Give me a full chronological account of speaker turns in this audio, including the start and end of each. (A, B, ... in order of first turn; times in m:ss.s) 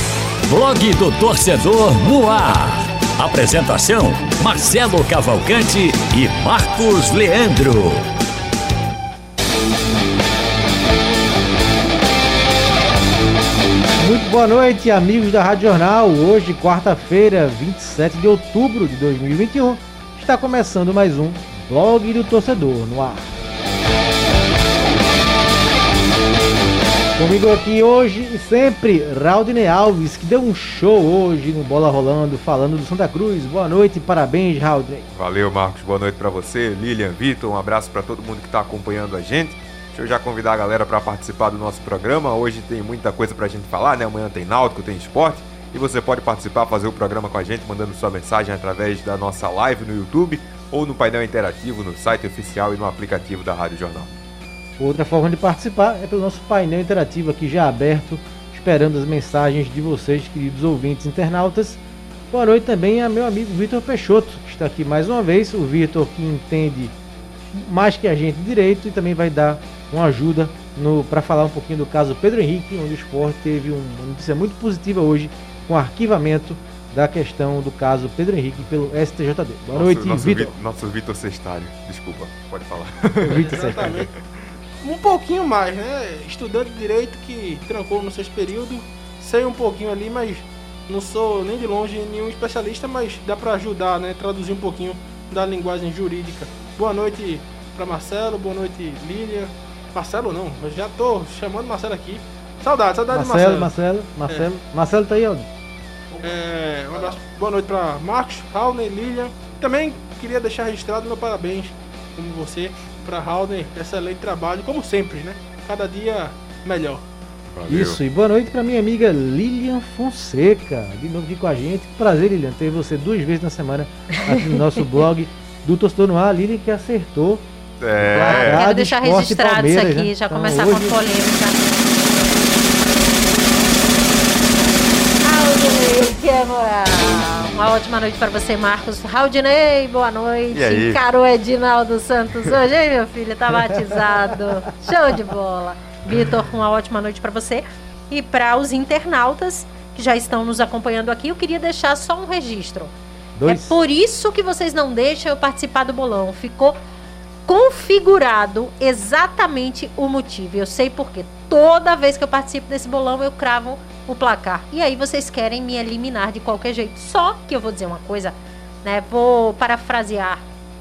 0:00.4-0:08.0 A
0:14.0-0:23.3 B
0:27.2-0:35.1 B
0:35.1-0:54.2 C
0:54.8-1:06.9 B
1:07.5-1:20.5 B
1:19.7-1:24.1 C
1:23.2-1:24.1 B
1:23.5-1:24.1 D
1:24.8-1:43.7 D
1:43.1-1:45.5 B
1:46.2-1:57.0 D
1:57.5-1:58.0 C
1:57.7-2:07.4 B
2:07.8-2:08.6 C
2:08.0-2:11.0 B
2:08.2-2:11.7 E
2:15.2-2:32.9 E
2:20.5-2:21.0 C
2:23.7-2:24.3 B
2:33.4-2:33.8 B
2:33.4-2:36.8 E
2:37.5-2:50.4 E